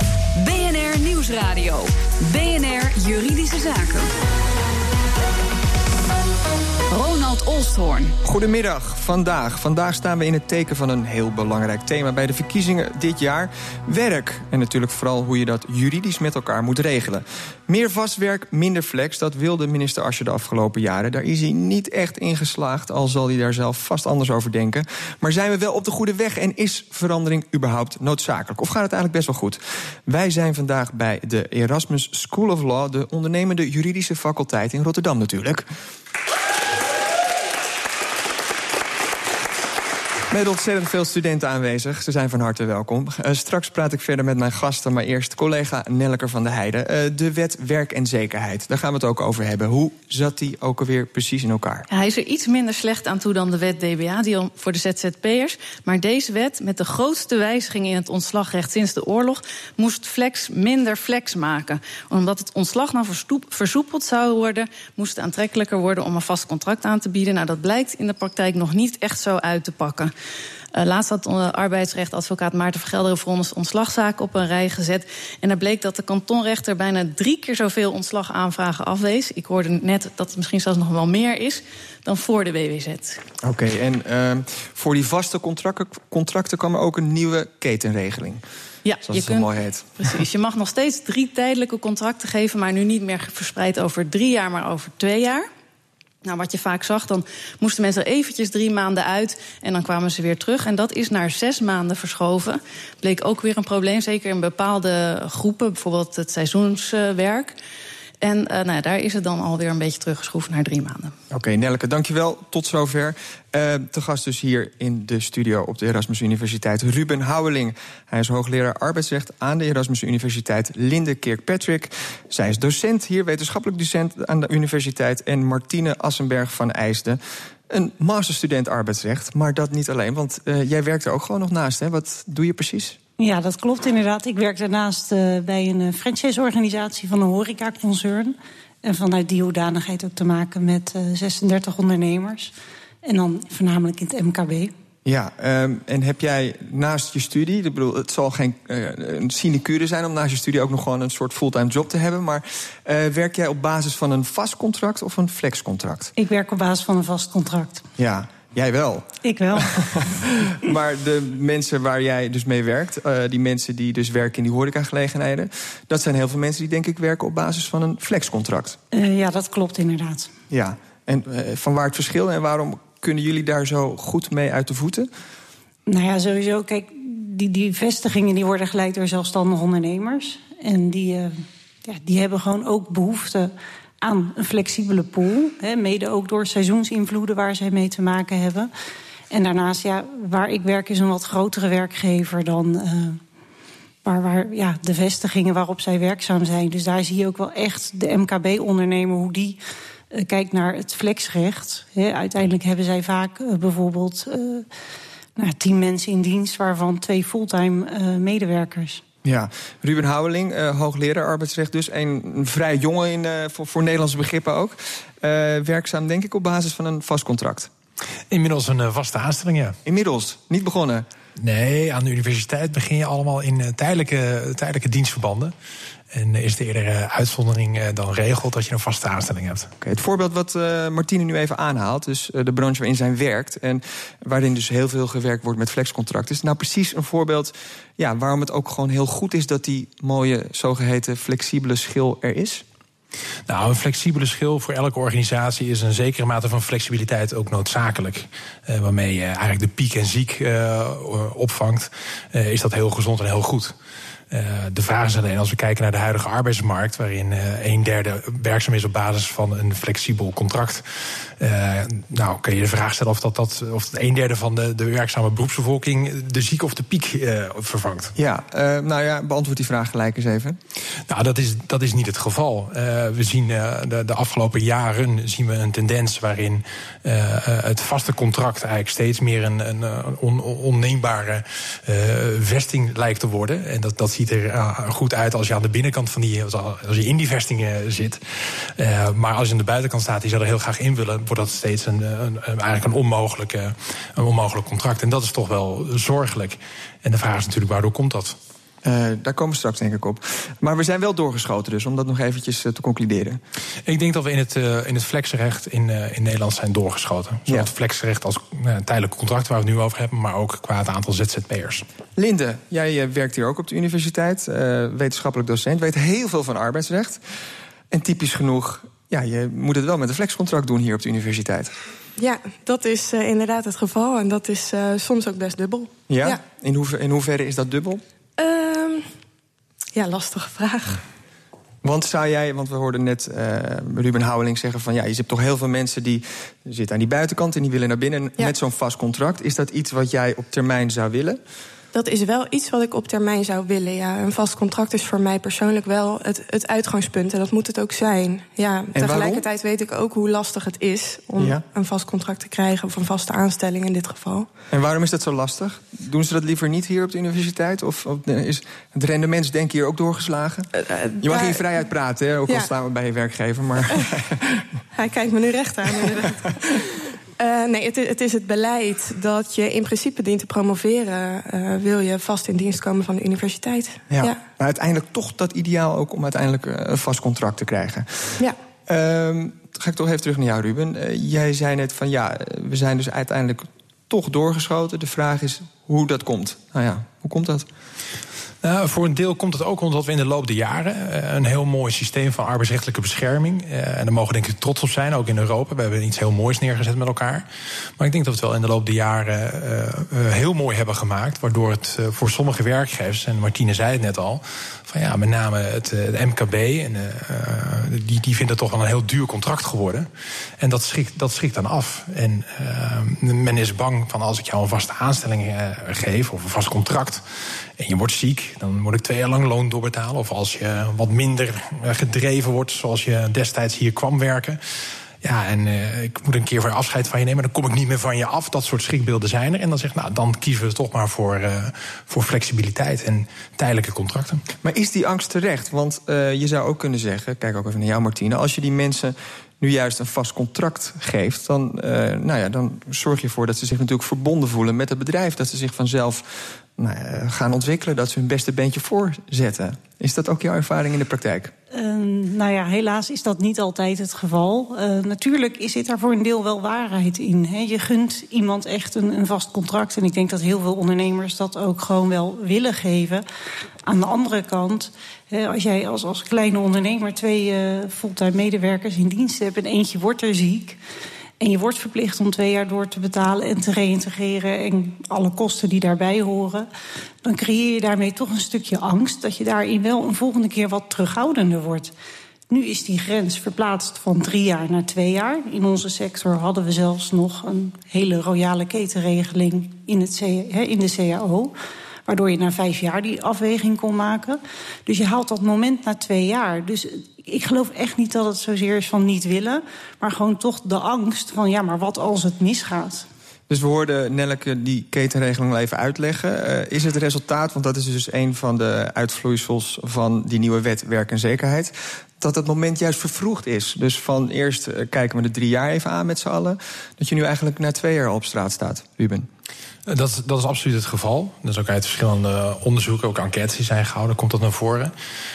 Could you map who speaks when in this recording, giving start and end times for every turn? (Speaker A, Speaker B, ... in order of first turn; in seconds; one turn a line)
Speaker A: 0.4-4.1
Speaker A: 6.9-8.2
Speaker B: 8.2-35.7
Speaker B: 40.3-51.9
Speaker C: 51.9-70.1
Speaker C: 70.7-83.2
Speaker B: 83.4-88.4
Speaker C: 88.8-95.5
Speaker B: 89.1-89.9
Speaker C: 96.2-107.5
Speaker C: 108.2-111.1
Speaker B: 111.3-133.0
Speaker D: 133.2-142.5
Speaker D: 143.1-144.7
Speaker B: 145.1-156.1
Speaker D: 156.2-157.8
Speaker B: 158.0-168.8
Speaker D: 159.2-159.8
Speaker D: 168.9-170.3
Speaker B: 170.5-175.1
Speaker D: 175.9-188.7
Speaker D: 189.3-193.2
Speaker D: 194.1-199.6
Speaker D: 200.1-204.7
Speaker D: 205.4-209.0
Speaker B: 209.2-217.7
Speaker E: 218.3-219.8
Speaker B: 219.9-221.1
Speaker E: 221.4-225.5
Speaker E: 226.1-229.7
Speaker B: 229.8-242.6
Speaker E: 243.5-253.8
Speaker E: 254.3-260.8
Speaker E: 261.4-268.1
Speaker B: 268.2-270.6
Speaker E: 271.1-298.4
Speaker B: 298.8-303.4
Speaker E: 303.9-311.9
Speaker B: 312.2-317.2
Speaker B: 317.9-321.7
Speaker F: 322.2-326.4
Speaker B: 326.1-328.0
Speaker F: 328.4-329.1
Speaker F: 329.9-331.0
Speaker B: 331.8-341.4
Speaker F: 341.9-354.5
Speaker B: 348.9-349.4
Speaker B: 351.4-351.6
Speaker B: 354.7-360.7
Speaker F: 360.8-361.6
Speaker B: 361.2-364.6
Speaker F: 364.9-374.4
Speaker B: 374.1-387.7
Speaker E: 388.6-397.5
Speaker E: 398.0-410.1
Speaker E: 410.6-417.2
Speaker E: 417.8-424.6
Speaker E: 425.2-434.4
Speaker B: 434.6-451.5
Speaker D: 451.7-463.2
Speaker D: 463.9-470.8
Speaker D: 471.4-476.7
Speaker D: 477.2-481.9
Speaker D: 482.5-491.5
Speaker D: 492.1-503.1
Speaker B: 503.5-519.3
Speaker E: 519.9-524.9